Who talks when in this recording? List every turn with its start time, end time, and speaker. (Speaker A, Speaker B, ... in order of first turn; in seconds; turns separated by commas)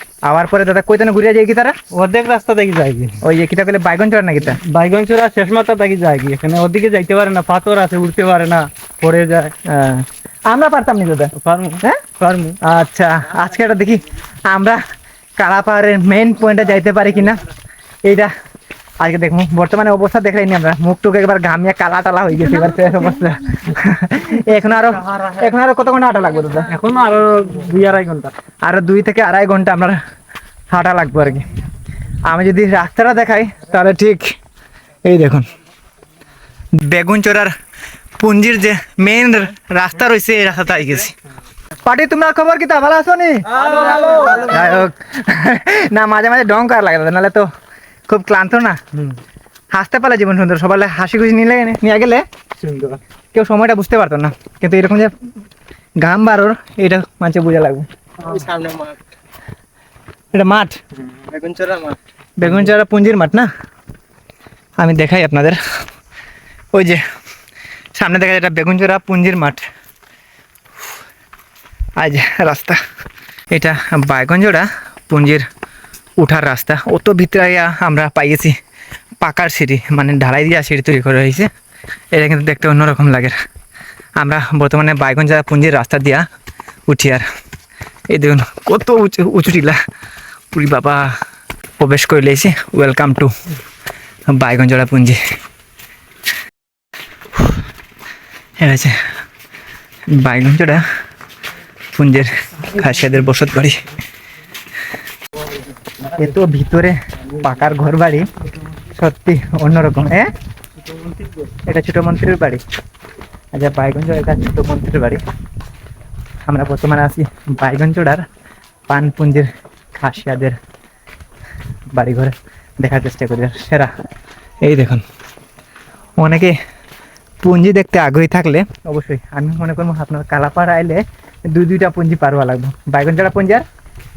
Speaker A: 0.2-1.8, Speaker B: 1.9-3.2, Speaker A: 3.2-4.6, Speaker B: 4.4-9.5, Speaker A: 9.7-12.0, Speaker B: 11.4-12.6, Speaker A: 12.6-14.8, Speaker A: 15.4-17.4, Speaker A: 18.1-18.3, Speaker A: 19.0-26.7, Speaker B: 25.1-25.4, Speaker B: 26.7-28.3, Speaker A: 28.6-30.0, Speaker A: 30.7-31.5, Speaker A: 32.3-34.3, Speaker A: 35.0-35.5, Speaker A: 36.8-37.5, Speaker A: 38.2-41.1, Speaker A: 41.8-47.5, Speaker B: 43.5-44.6, Speaker A: 48.1-48.8, Speaker A: 49.7-52.2, Speaker B: 52.6-53.0, Speaker A: 53.3-55.1, Speaker A: 56.0-57.9, Speaker B: 58.2-59.0, Speaker A: 60.3-60.8, Speaker B: 61.1-62.0, Speaker A: 62.4-63.5, Speaker A: 64.8-65.6, Speaker A: 66.7-67.0, Speaker A: 67.9-69.7, Speaker A: 72.0-72.8, Speaker A: 73.5-75.5, Speaker A: 76.2-78.6, Speaker A: 79.2-81.5, Speaker A: 82.1-83.4, Speaker A: 84.2-86.3, Speaker A: 86.9-87.2, Speaker A: 88.1-89.8, Speaker A: 90.5-91.1, Speaker A: 91.8-93.3, Speaker A: 94.3-95.2, Speaker A: 98.6-99.0, Speaker A: 100.1-100.8, Speaker A: 101.9-103.8, Speaker A: 106.1-108.3, Speaker A: 108.9-110.3, Speaker B: 110.9-111.5, Speaker A: 111.7-112.6, Speaker A: 113.5-115.2, Speaker A: 116.5-118.2, Speaker A: 118.9-120.6, Speaker A: 121.9-123.9, Speaker A: 124.6-125.0, Speaker A: 126.2-126.6, Speaker A: 127.4-133.7